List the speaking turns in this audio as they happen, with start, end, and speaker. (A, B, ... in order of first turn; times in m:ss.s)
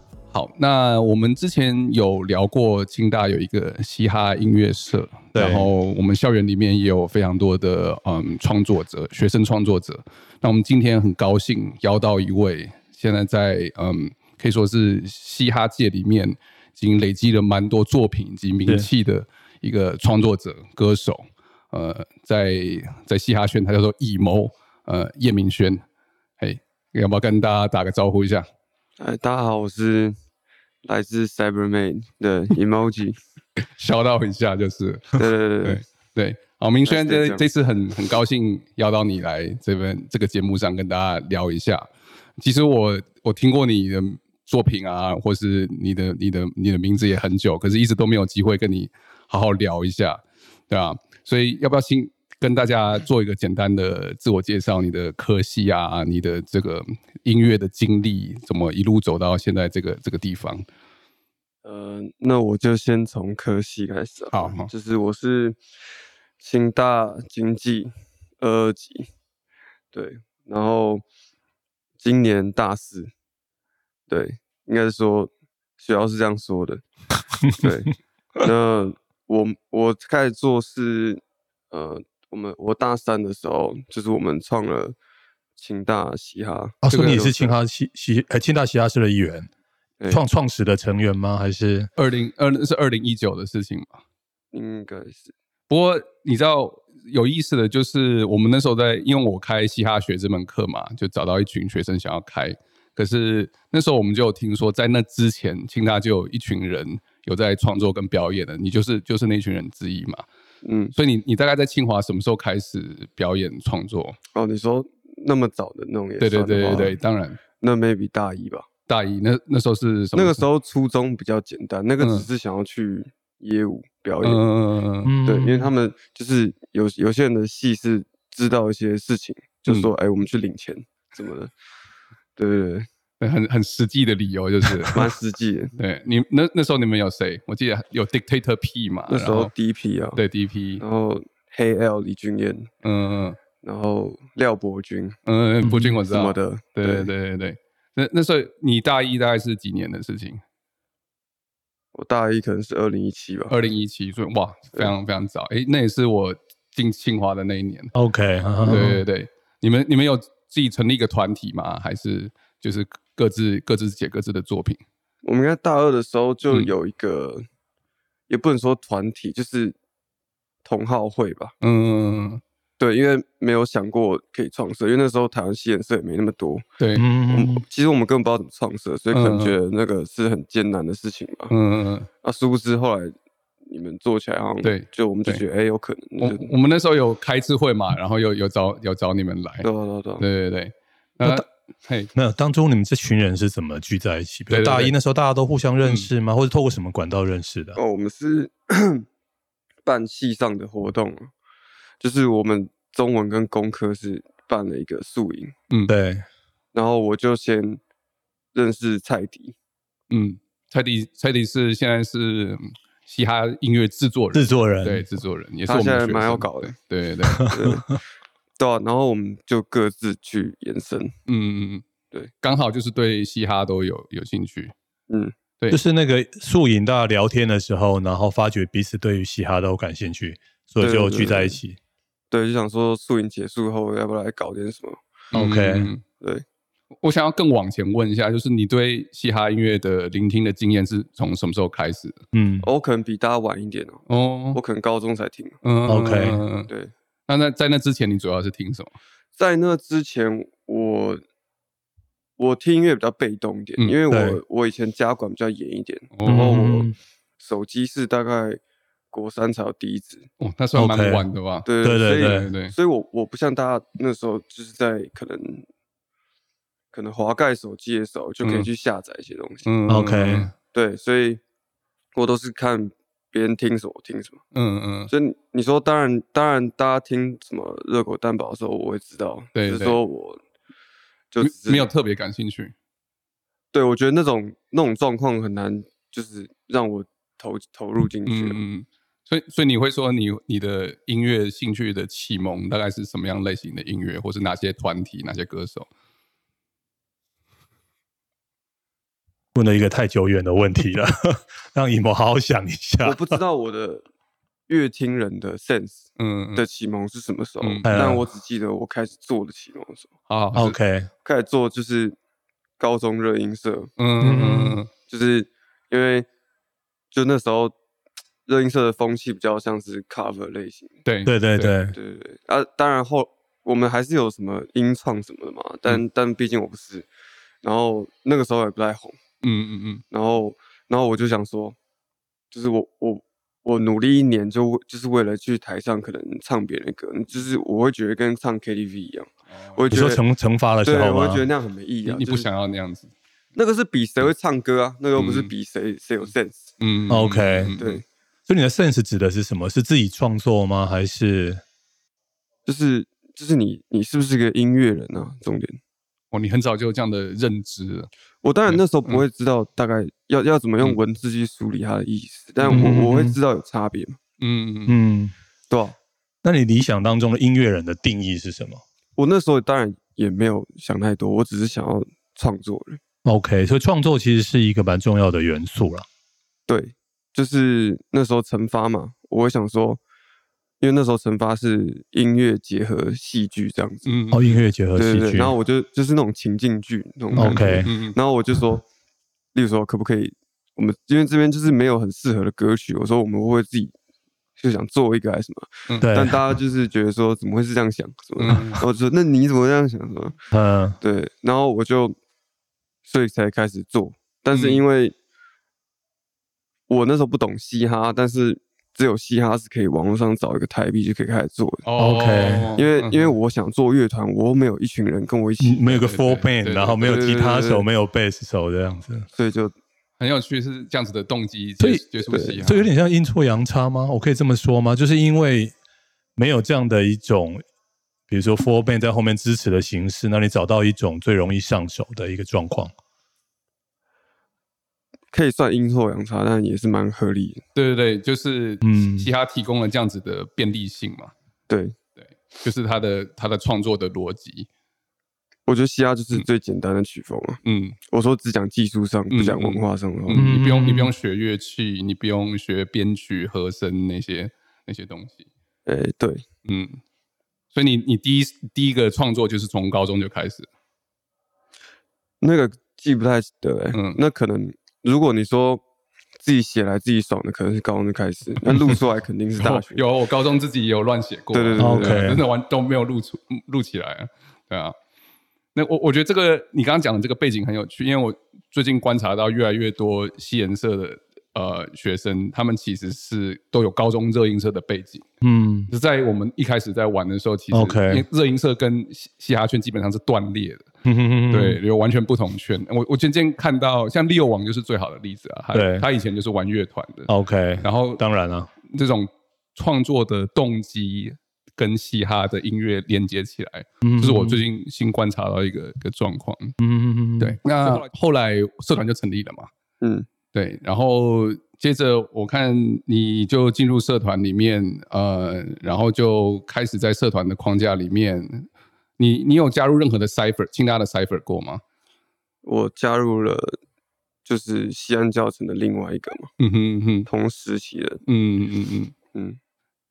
0:00.3-0:25.8 A
0:05.3-0:05.7 B
0:26.4-0:28.5 A
0:29.0-0:30.2 C
0:30.8-0:33.2 C
0:33.8-1:00.6 A
0:35.1-0:35.8 C
0:36.8-0:37.4 C
1:01.6-1:05.6 C
1:04.3-1:04.7 A
1:06.4-1:09.1 C
1:09.9-1:11.0 C
1:12.0-1:13.1 C
1:14.1-1:16.8 C
1:17.6-1:25.0 C
1:25.6-1:27.6 C
1:26.8-1:29.5 B
1:30.1-1:31.9 B
1:32.0-1:34.0 A
1:34.5-1:35.3 C
1:35.7-1:50.2 A
1:50.6-1:50.9 C
1:50.9-1:54.2 A
1:54.3-1:57.0 C
1:56.2-1:57.4 A
1:57.6-1:58.6 C
1:58.9-2:00.4 A
2:00.1-2:04.4 C
2:02.0-2:02.3 A
2:04.2-2:05.1 A
2:05.0-2:05.7 B
2:05.2-2:11.5 C
2:09.7-2:09.9 A
2:12.4-2:12.9 C
2:13.2-2:15.1 A
2:14.8-2:15.7 C
2:15.8-2:19.5 A
2:19.1-2:20.2 C
2:20.2-2:20.8 A
2:20.8-2:22.7 C
2:22.8-2:23.4 A
2:23.6-2:25.2 C
2:25.2-2:30.4 A
2:25.6-2:26.0 B
2:26.0-2:27.1 C
2:31.9-2:33.5 C
2:33.5-2:37.9 A
2:37.9-2:39.0 B
2:38.6-2:44.8 A
2:45.2-2:47.4 C
2:48.3-2:49.8 C
2:50.6-2:51.5 C
2:51.6-2:52.4 A
2:52.8-2:56.6 C
2:56.8-2:57.1 A
2:57.0-2:57.6 B
2:57.2-3:01.5 C
2:59.1-2:59.6 A
3:01.5-3:02.1 A
3:02.2-3:03.1 C
3:03.7-3:06.5 C
3:04.6-3:05.4 A
3:06.2-3:09.7 A
3:09.6-3:10.2 C
3:10.2-3:12.1 A
3:12.1-3:17.8 B
3:14.5-3:14.9 A
3:15.8-3:16.1 A
3:17.8-3:19.0 C
3:19.8-3:21.3 C
3:22.0-3:25.5 C
3:25.9-3:26.2 B
3:26.7-3:27.8 C
3:28.5-3:29.5 C
3:30.1-3:37.5 A
3:34.3-3:35.0 B
3:35.7-3:36.7 C
3:37.3-3:37.8 B
3:37.4-3:38.0 C
3:38.6-3:41.1 C
3:41.2-3:41.8 A
3:42.4-3:44.7 A
3:45.1-3:45.3 C
3:45.7-3:51.8 B
3:50.8-3:51.6 C
3:52.3-3:55.0 C
3:55.3-3:56.0 A
3:55.3-3:55.9 B
3:57.0-4:02.2 A
4:02.3-4:02.6 B
4:02.6-4:05.6 C
4:04.1-4:04.6 A
4:05.6-4:06.7 A
4:05.9-4:06.4 B
4:07.3-4:08.9 A
4:09.4-4:11.2 C
4:12.4-4:18.6 C
4:14.1-4:14.4 B
4:16.1-4:16.6 A
4:16.3-4:16.9 B
4:19.1-4:20.3 C
4:20.4-4:22.7 A
4:20.8-4:21.2 B
4:21.6-4:25.6 C
4:21.8-4:22.5 B
4:26.9-4:29.6 C
4:28.4-4:28.7 A
4:29.6-4:30.5 A
4:29.9-4:30.5 B
4:30.7-4:31.4 C
4:32.1-4:34.4 C
4:34.5-4:35.1 A
4:35.1-4:40.4 C
4:39.5-4:40.0 A
4:41.3-4:41.9 C
4:41.4-4:42.7 A
4:43.7-4:48.6 C
4:48.2-4:55.9 A
4:59.5-5:03.4 B
5:03.0-5:04.0 C
5:04.7-5:10.1 C
5:06.2-5:06.6 A
5:07.6-5:07.9 A
5:07.8-5:08.2 B
5:10.3-5:10.8 A
5:10.5-5:11.1 B
5:11.2-5:12.2 C
5:12.8-5:13.9 C
5:14.0-5:14.9 A
5:14.2-5:14.8 B
5:15.0-5:16.3 C
5:17.1-5:17.7 C
5:18.5-5:21.0 C
5:21.0-5:21.7 A
5:21.2-5:22.0 B
5:21.9-5:27.1 C
5:27.6-5:29.2 C
5:29.4-5:30.0 A
5:30.1-5:31.8 C
5:32.5-5:40.2 C
5:39.5-5:39.8 A
5:39.9-5:41.4 B
5:40.8-5:42.5 C
5:42.0-5:43.1 A
5:43.5-5:46.7 C
5:45.2-5:45.5 A
5:46.8-5:48.0 A
5:47.1-5:47.7 B
5:47.8-5:48.0 C
5:48.5-5:51.6 B
5:52.6-5:55.8 C
5:56.3-5:58.1 A
5:58.4-6:04.2 C
5:58.7-5:59.2 A
6:02.7-6:03.4 B
6:02.7-6:02.9 A
6:04.4-6:04.9 A
6:04.8-6:05.3 B
6:05.7-6:06.0 C
6:06.4-6:08.8 B
6:09.2-6:13.0 C
6:13.2-6:16.0 B
6:16.7-6:20.0 C
6:20.8-6:24.1 C
6:24.0-6:24.6 A
6:24.3-6:25.5 B
6:25.0-6:28.8 C
6:27.3-6:28.2 A
6:27.4-6:27.9 B
6:29.5-6:33.9 C
6:34.6-6:40.4 C
6:36.0-6:36.5 B
6:38.4-6:38.8 A
6:40.5-6:41.0 B
6:41.0-6:42.2 C
6:43.0-6:45.1 C
6:44.5-6:44.8 A
6:46.9-6:51.8 C
6:51.8-6:53.3 A
6:52.0-6:52.7 B
6:52.8-6:56.0 C
6:55.6-6:59.2 B
6:56.0-6:57.2 A
6:57.0-6:57.8 C
6:59.3-6:59.8 C
7:00.2-7:02.9 A
7:01.8-7:02.0 B
7:02.3-7:02.6 C
7:02.6-7:05.7 B
7:06.4-7:07.6 B
7:08.3-7:12.9 B
7:15.3-7:17.6 C
7:17.8-7:21.3 A
7:18.8-7:19.3 B
7:21.7-7:22.0 C
7:22.2-7:24.7 A
7:25.7-7:30.5 C
7:27.6-7:28.0 A
7:29.3-7:35.4 A
7:30.3-7:31.1 B
7:35.8-7:36.4 C
7:36.6-7:37.0 A
7:37.7-7:40.7 A
7:42.4-7:45.8 C
7:43.9-7:44.2 A
7:46.4-7:50.0 C
7:49.6-7:54.9 A
7:51.5-7:52.2 C
7:51.8-7:52.4 B
7:55.7-8:05.2 A
8:05.4-8:05.9 B
8:05.9-8:10.9 A
8:07.7-8:08.2 B
8:11.0-8:11.8 B
8:11.5-8:17.3 A
8:15.7-8:16.0 B
8:17.3-8:18.7 B
8:17.8-8:18.2 A
8:18.9-8:26.8 A
8:24.0-8:24.6 B
8:26.8-8:28.0 B
8:27.4-8:29.7 A
8:30.0-8:30.3 C
8:30.5-8:41.8 A
8:42.6-8:43.8 C
8:44.4-8:46.5 C
8:46.6-8:47.3 A
8:47.3-8:48.2 C
8:48.2-8:49.1 A